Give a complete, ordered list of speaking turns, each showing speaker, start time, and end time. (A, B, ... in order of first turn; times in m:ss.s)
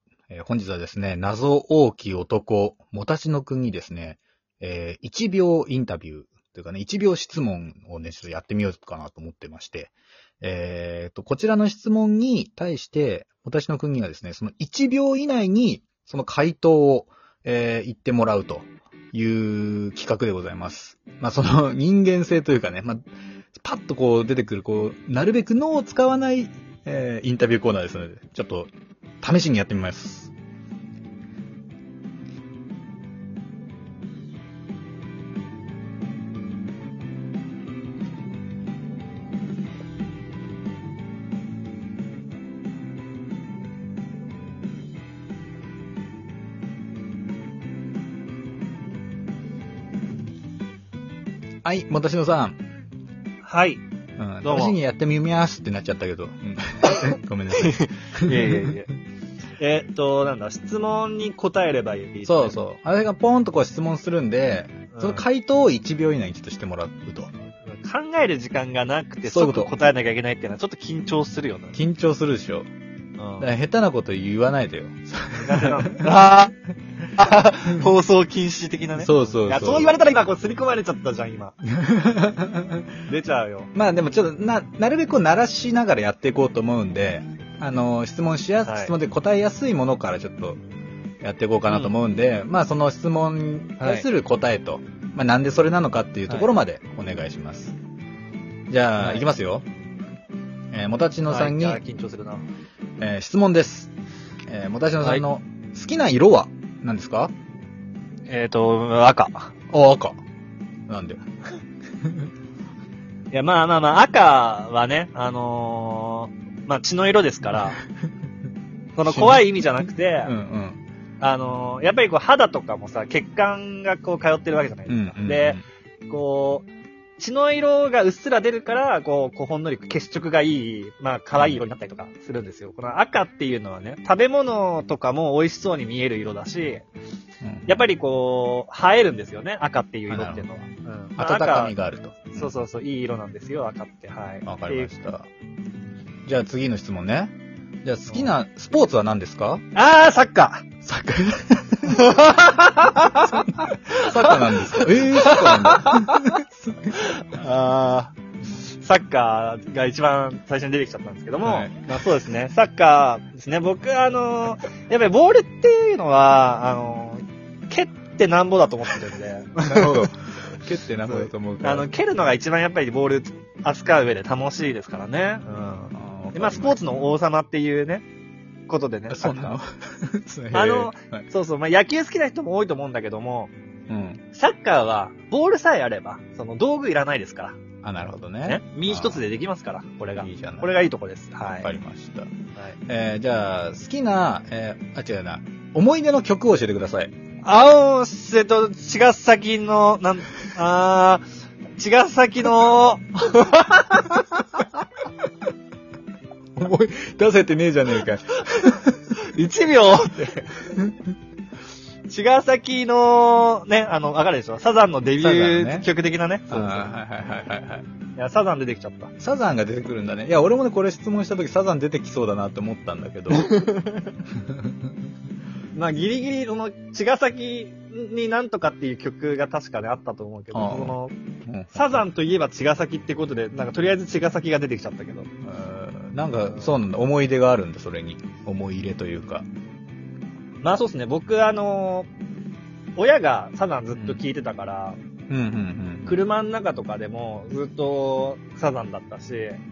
0:00.3-0:23.0 A
0:23.6-0:28.7 A
0:29.2-0:30.3 A
0:51.6-0:52.6 A
0:53.4-0:53.8 B
0:54.2-0:58.7 A
0:54.4-0:54.8 B
0:57.0-0:58.9 B
0:59.6-1:02.6 B
1:02.3-1:07.3 A
1:04.9-1:05.2 B
1:07.7-1:11.8 B
1:09.3-1:09.7 A
1:11.7-1:12.7 A
1:13.2-1:13.5 B
1:13.4-1:16.0 A
1:15.4-1:16.5 B
1:17.2-1:21.6 B
1:19.0-1:20.0 A
1:21.7-1:22.9 A
1:23.1-1:23.7 B
1:23.7-1:30.6 A
1:28.6-1:28.9 B
1:31.2-1:37.8 A
1:31.7-1:31.9 B
1:33.8-1:34.1 B
1:38.7-1:39.7 A
1:39.0-1:39.3 B
1:40.7-1:41.8 A
1:41.3-1:42.5 B
1:43.0-1:43.9 A
1:44.5-1:47.3 A
1:48.3-1:49.5 B
1:49.7-1:50.2 A
1:50.9-1:51.2 A
1:53.3-1:57.8 B
1:59.0-2:00.3 B
1:59.0-2:00.8 A
2:01.2-2:16.9 B
2:04.9-2:05.6 A
2:17.4-2:17.8 A
2:17.7-2:21.8 B
2:20.1-2:20.5 A
2:21.2-2:22.5 A
2:22.3-2:24.9 B
2:24.4-2:25.3 A
2:26.3-2:29.6 A
2:29.8-2:30.6 B
2:30.8-2:32.0 A
2:31.8-2:50.1 B
2:33.9-2:37.0 A
2:41.4-2:41.9 A
2:49.6-2:51.9 A
2:51.0-2:58.1 B
2:56.0-2:56.8 A
2:58.7-2:59.6 B
2:59.1-3:01.3 A
3:00.5-3:03.5 B
3:03.9-3:04.2 A
3:04.3-3:07.6 B
3:07.8-3:09.2 A
3:08.4-3:11.7 B
3:10.2-3:10.8 A
3:11.6-3:12.3 A
3:12.9-3:17.1 A
3:17.4-3:21.2 B
3:21.8-3:24.6 B
3:26.6-3:29.0 A
3:28.5-3:30.7 B
3:32.1-3:36.9 B
3:35.2-3:35.9 A
3:36.5-3:37.9 A
3:38.2-3:39.1 B
3:39.2-3:43.6 A
3:43.3-3:44.1 B
3:44.4-3:44.7 A
3:45.8-3:51.1 B
3:50.5-3:52.0 A
3:51.7-3:55.3 B
3:55.4-3:59.5 A
4:00.6-4:02.1 B
4:03.0-4:05.0 B
4:05.3-4:06.2 A
4:06.1-4:09.6 B